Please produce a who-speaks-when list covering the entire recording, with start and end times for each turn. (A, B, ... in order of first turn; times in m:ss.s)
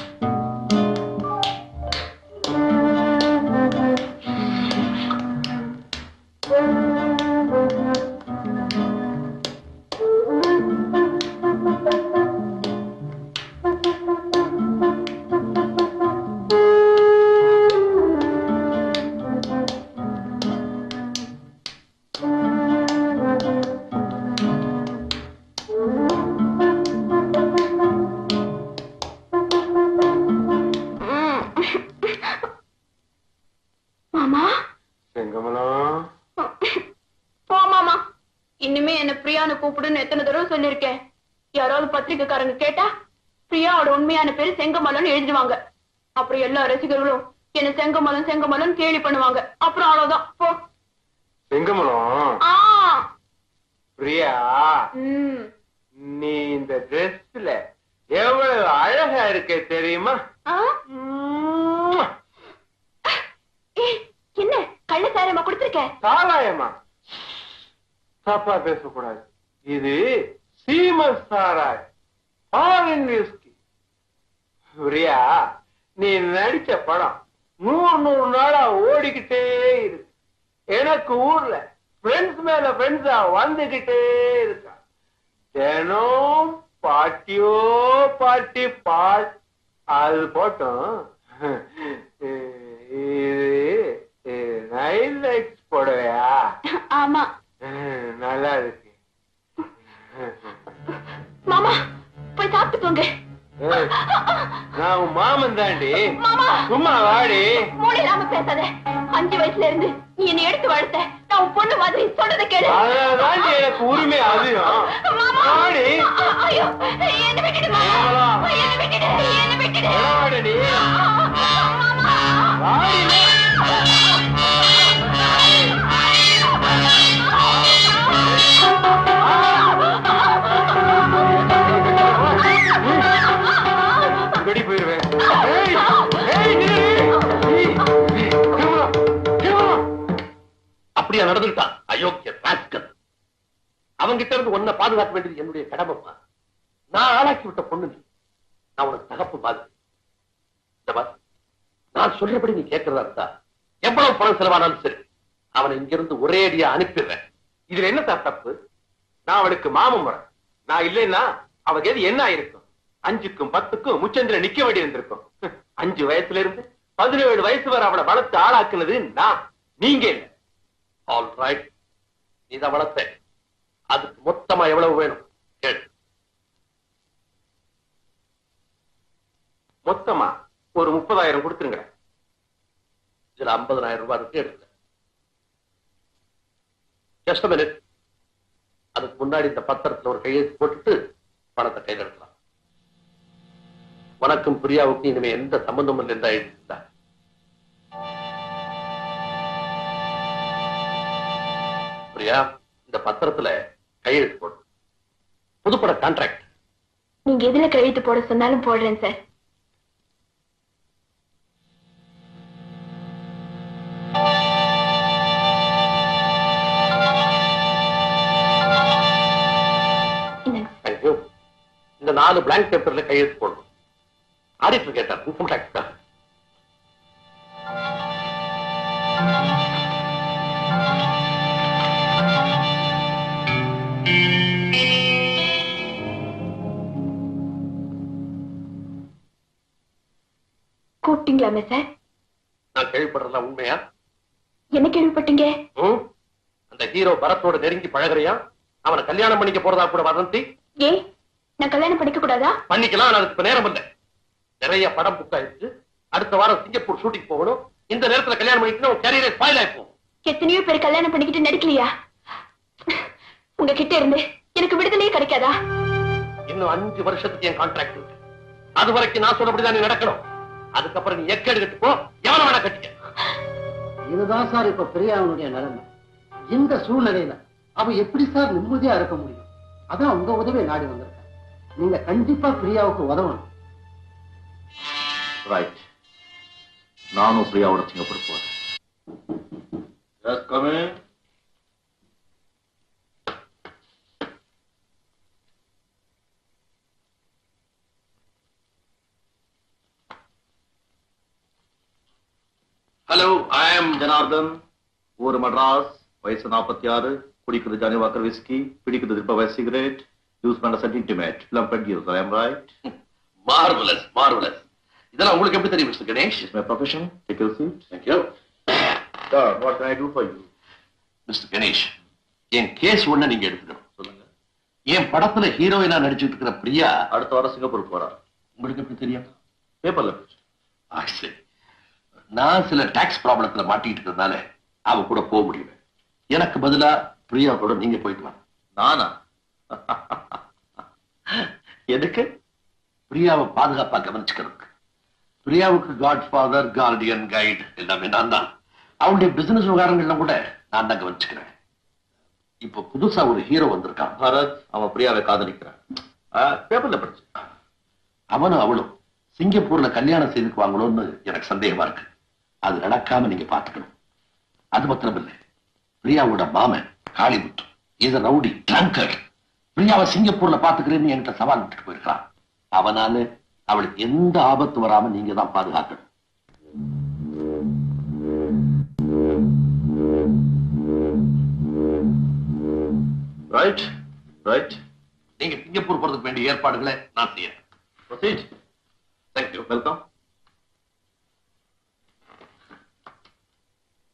0:31.0-0:32.4 A
0:34.2-0:34.5 A
0:35.1-0:36.0 B
0:36.5-0:36.8 A
0:37.5-0:38.0 A
0:38.6-0:41.0 A
0:41.6-0:42.9 A
0:43.5-0:45.6 A
0:46.2-0:50.6 A
0:51.5-0:52.4 B
0:52.5-0:53.0 A
0:54.0-0:54.8 B
0:55.0-0:55.5 A
0:56.0-0:57.6 B
0:58.1-1:00.2 B
1:00.5-1:00.8 A
1:00.9-1:02.1 B
1:03.8-1:05.9 A
1:06.0-1:06.8 B
1:08.2-1:10.0 B
1:10.6-1:11.8 B
1:12.5-1:13.5 B
1:14.8-1:15.3 B
1:16.0-1:20.1 B
1:20.7-1:24.8 B
1:25.6-1:29.3 B
1:29.9-1:30.8 B
1:31.4-1:36.4 B
1:36.9-1:37.3 A
1:37.6-1:38.9 B
1:40.2-1:40.6 B
1:41.5-1:41.8 A
1:42.4-1:43.1 A
1:43.6-1:43.9 B
1:43.8-1:44.7 A
1:44.8-1:46.0 B
1:46.2-1:46.7 A
1:46.7-1:47.6 B
1:47.8-2:00.0 A
1:52.7-1:55.9 B
1:57.8-1:58.5 B
1:59.9-2:00.8 B
2:01.0-2:01.7 A
2:02.6-2:03.3 B
2:09.2-2:09.6 B
2:11.2-2:13.0 B
2:14.3-2:19.8 B
2:21.0-2:22.9 C
2:24.0-2:26.2 C
2:26.9-2:28.0 C
2:28.8-2:29.7 C
2:32.0-2:33.3 C
2:33.8-2:35.0 C
2:35.6-2:37.2 C
2:37.7-2:38.6 B
2:39.3-2:50.3 B
2:51.1-2:51.6 C
2:52.5-2:53.1 C
2:53.9-2:55.8 C
2:59.8-3:01.9 B
3:03.4-3:04.7 C
3:07.3-3:07.7 C
3:09.0-3:11.0 C
3:11.6-3:12.3 C
3:14.2-3:16.8 C
3:22.1-3:23.5 C
3:24.0-3:24.6 C
3:25.6-3:26.4 C
3:27.3-3:29.2 A
3:40.8-3:41.2 C
3:42.0-3:43.6 C
3:44.6-3:45.8 C
4:01.0-4:01.8 A
4:02.8-4:03.8 C
4:04.8-4:05.5 A
4:06.7-4:10.4 C
4:11.6-4:12.6 A
4:12.7-4:13.8 C
4:14.6-4:19.9 C
4:20.2-4:21.9 A
4:23.6-4:25.5 A
4:26.5-4:28.2 C
4:28.8-4:30.2 C
4:30.8-4:32.9 C
4:34.1-4:35.8 D
4:36.5-4:41.2 D
4:41.8-4:43.4 D
4:45.4-4:45.8 E
4:47.2-4:48.5 E
4:50.2-4:51.0 E
5:03.1-5:04.0 C
5:04.0-5:04.6 E
5:05.2-5:12.7 E
5:13.5-5:14.6 C
5:15.1-5:16.5 C
5:16.4-5:17.8 E
5:17.9-5:18.3 C
5:19.3-5:20.5 E
5:21.3-5:21.9 C
5:22.6-5:23.8 C
5:24.0-5:24.3 E
5:24.9-5:26.9 C
5:27.1-5:28.2 E
5:28.6-5:29.3 C
5:29.8-5:30.4 E
5:30.9-5:31.4 C
5:32.4-5:35.8 C
5:36.3-5:38.4 C
5:38.8-5:39.1 E
5:39.7-5:40.4 E
5:41.9-5:42.3 E
5:43.1-5:44.7 C
5:45.4-5:48.5 C
5:49.0-5:51.5 C
5:52.6-5:54.2 C
5:54.2-5:55.8 E
5:56.3-5:57.3 E
5:58.3-6:02.1 C
6:02.7-6:03.9 C
6:04.8-6:05.4 C
6:06.0-6:09.2 C
6:09.8-6:12.2 C
6:12.8-6:16.0 C
6:23.5-6:23.9 E
6:24.4-6:24.8 E
6:25.4-6:27.6 C
6:28.1-6:28.5 E
6:29.4-6:29.6 C
6:29.7-6:30.0 E